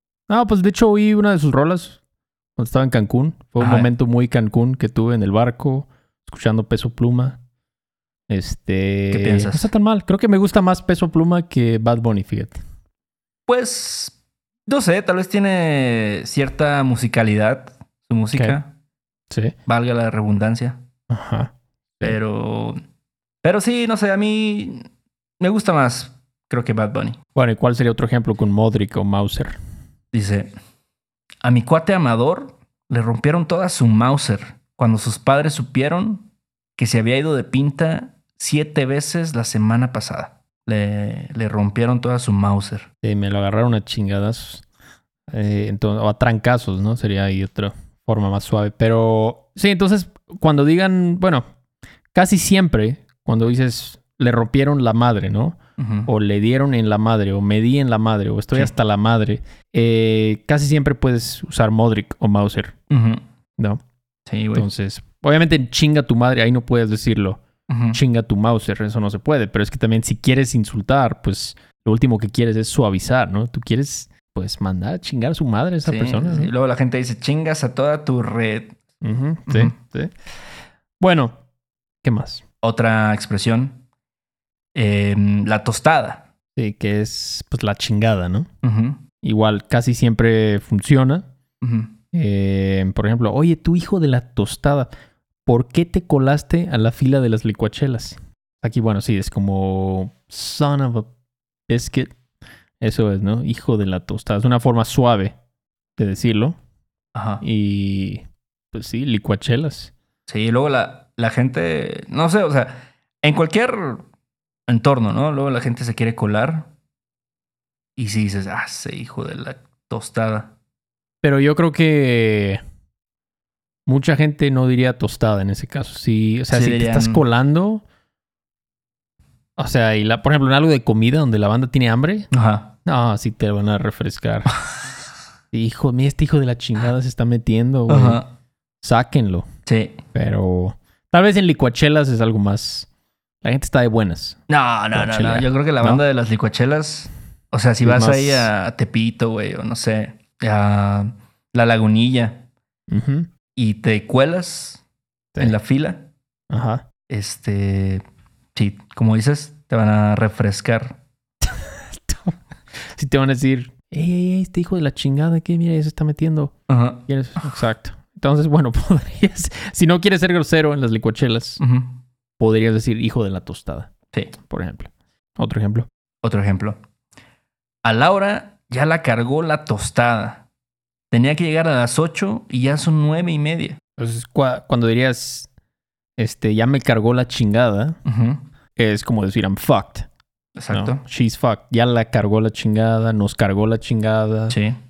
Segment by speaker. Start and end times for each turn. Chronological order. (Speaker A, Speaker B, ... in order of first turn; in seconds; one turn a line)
Speaker A: 0.3-2.0
Speaker A: 2.6-7.4
Speaker B: 3.6-3.9
Speaker A: 8.3-12.6
Speaker B: 9.1-9.7
Speaker B: 13.5-14.1
Speaker B: 14.7-18.7
Speaker B: 19.7-20.8
Speaker A: 21.1-22.2
Speaker B: 22.0-22.8
Speaker B: 23.4-24.8
Speaker B: 25.4-27.2
Speaker A: 27.4-29.6
Speaker B: 30.1-30.5
Speaker B: 31.4-36.3
Speaker B: 36.8-42.9
Speaker A: 43.0-44.6
Speaker A: 45.3-51.5
Speaker A: 52.1-62.8
Speaker B: 55.8-56.1
Speaker B: 62.9-63.2
Speaker B: 64.3-64.7
Speaker A: 64.5-76.5
Speaker B: 67.7-68.0
Speaker B: 75.9-78.8
Speaker A: 79.0-80.1
Speaker A: 81.0-81.4
Speaker A: 82.0-82.4
Speaker B: 82.6-83.8
Speaker B: 84.8-86.2
Speaker A: 86.6-88.5
Speaker B: 88.6-89.0
Speaker A: 89.2-91.3
Speaker B: 91.6-91.9
Speaker A: 92.1-94.9
Speaker A: 95.5-101.1
Speaker A: 101.7-102.1
Speaker A: 102.8-105.3
Speaker A: 106.0-106.6
Speaker B: 107.1-107.4
Speaker A: 107.4-109.9
Speaker B: 110.3-114.0
Speaker B: 114.7-116.7
Speaker B: 118.0-120.5
Speaker A: 121.2-122.6
Speaker A: 123.9-127.8
Speaker B: 126.5-127.2
Speaker A: 129.6-132.3
Speaker B: 132.3-132.7
Speaker A: 132.8-134.6
Speaker A: 135.5-138.2
Speaker B: 137.9-138.2
Speaker A: 138.8-139.5
Speaker B: 139.7-139.9
Speaker A: 140.1-142.9
Speaker A: 143.4-144.4
Speaker B: 144.5-152.4
Speaker A: 144.9-146.0
Speaker A: 147.8-148.5
Speaker A: 152.9-153.3
Speaker B: 153.6-154.8
Speaker B: 155.4-156.0
Speaker A: 156.5-156.8
Speaker B: 157.1-158.0
Speaker B: 158.6-160.9
Speaker A: 161.4-166.5
Speaker B: 166.7-167.0
Speaker A: 167.1-171.6
Speaker B: 171.6-171.9
Speaker A: 172.4-175.9
Speaker B: 176.2-176.8
Speaker B: 177.8-180.4
Speaker B: 181.1-183.8
Speaker A: 184.0-185.5
Speaker A: 186.2-188.0
Speaker B: 188.1-188.4
Speaker A: 188.8-190.1
Speaker B: 190.6-191.0
Speaker A: 190.7-194.6